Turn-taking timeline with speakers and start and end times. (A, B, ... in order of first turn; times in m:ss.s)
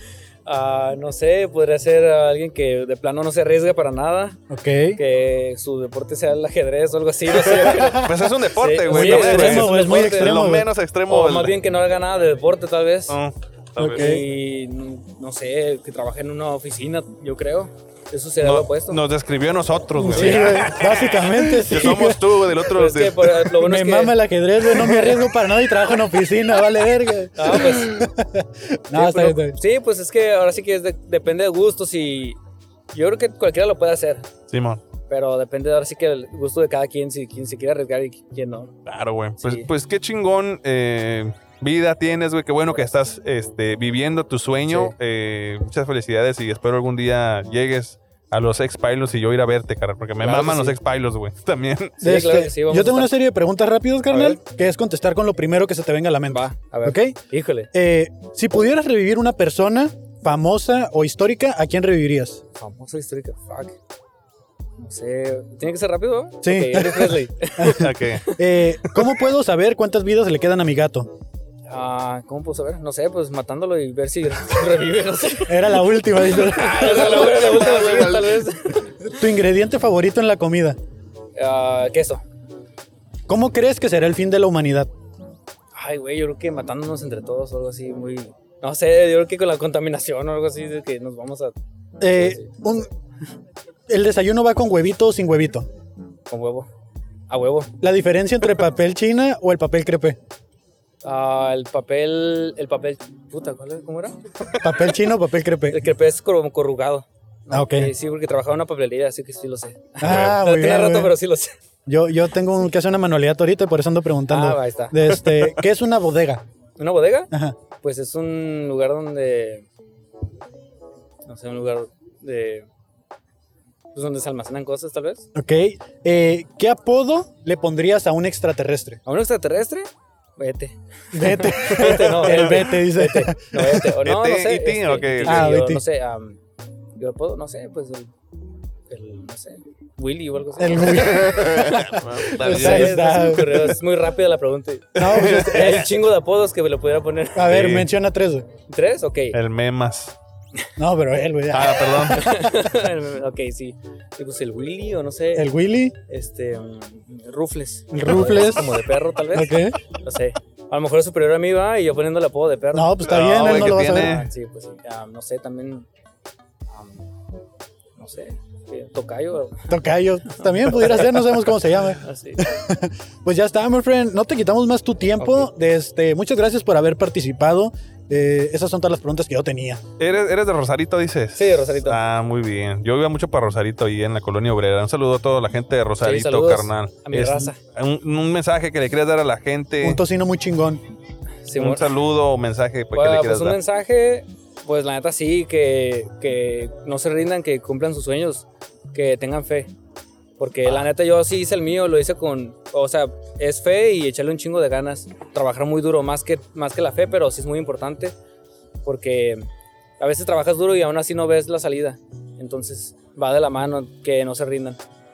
0:00.4-0:04.4 A
0:04.5-0:05.0 B
0:05.0-0:10.4 A
0:07.6-0:08.1 B
0:07.8-0:11.6 C
0:08.9-0:10.7 B
0:11.1-0:13.2 A
0:13.1-0:14.2 C
0:13.8-0:14.2 B
0:13.9-0:19.0 A
0:18.4-0:23.5 C
0:20.0-0:22.3 B
0:20.1-0:20.6 A
0:22.7-0:24.1 A
0:23.6-0:29.6 B
0:27.4-0:28.0 A
0:29.0-0:32.4 A
0:32.9-0:34.3 A
0:34.5-0:34.8 C
0:35.1-0:38.7 A
0:38.9-0:52.0 C
0:39.4-0:39.7 A
0:44.7-0:45.0 A
0:50.2-0:50.8 A
0:52.0-0:53.1 A
0:52.0-0:57.2 B
0:54.1-0:54.4 A
0:56.3-0:57.7 A
0:57.7-1:02.4 B
1:02.6-1:03.8 A
1:04.8-1:08.4 A
1:06.4-1:11.1 B
1:07.7-1:08.2 C
1:11.7-1:15.7 A
1:15.5-1:17.2 B
1:16.3-1:19.2 A
1:16.5-1:18.4 C
1:19.1-1:20.8 B
1:21.4-1:22.2 A
1:23.3-1:24.9 B
1:25.7-1:31.6 A
1:32.0-1:32.9 B
1:32.2-1:32.4 A
1:33.9-1:35.7 B
1:36.3-1:36.7 A
1:37.3-1:37.7 A
1:37.8-1:40.2 B
1:41.0-1:44.1 A
1:44.6-1:45.8 B
1:45.7-1:51.5 A
1:47.5-1:47.9 B
1:50.0-1:51.2 B
1:50.0-1:50.4 C
1:51.9-1:56.4 B
1:54.3-1:55.5 A
1:56.8-1:59.7 A
1:57.3-1:57.6 B
2:01.3-2:02.7 A
2:03.9-2:05.3 A
2:05.3-2:09.0 B
2:09.0-2:16.4 A
2:11.1-2:14.0 B
2:11.7-2:12.7 C
2:14.0-2:15.5 C
2:15.2-2:15.8 B
2:17.0-2:18.1 A
2:18.9-2:27.5 A
2:20.6-2:21.8 B
2:20.9-2:23.7 C
2:22.3-2:23.7 B
2:25.0-2:25.8 C
2:25.0-2:25.9 B
2:27.3-2:28.5 B
2:27.4-2:27.9 C
2:28.7-2:29.4 A
2:29.3-2:30.1 C
2:30.8-2:32.3 B
2:31.5-2:32.4 C
2:32.0-2:35.5 A
2:35.3-2:36.0 B
2:36.1-2:45.9 A
2:37.9-2:39.8 B
2:42.7-2:44.1 B
2:43.0-2:44.3 C
2:46.7-2:47.0 A
2:48.0-2:49.7 A
2:49.7-2:59.8 B
2:50.7-2:51.4 A
2:52.0-2:52.4 A
2:55.2-2:55.5 A
3:00.0-3:10.0 C
3:01.4-3:02.0 A
3:06.0-3:07.6 A
3:09.8-3:10.8 B
3:11.4-3:11.9 A
3:11.6-3:13.6 C
3:12.9-3:19.7 A
3:20.4-3:28.1 A
3:28.8-3:29.4 A
3:30.0-3:34.8 A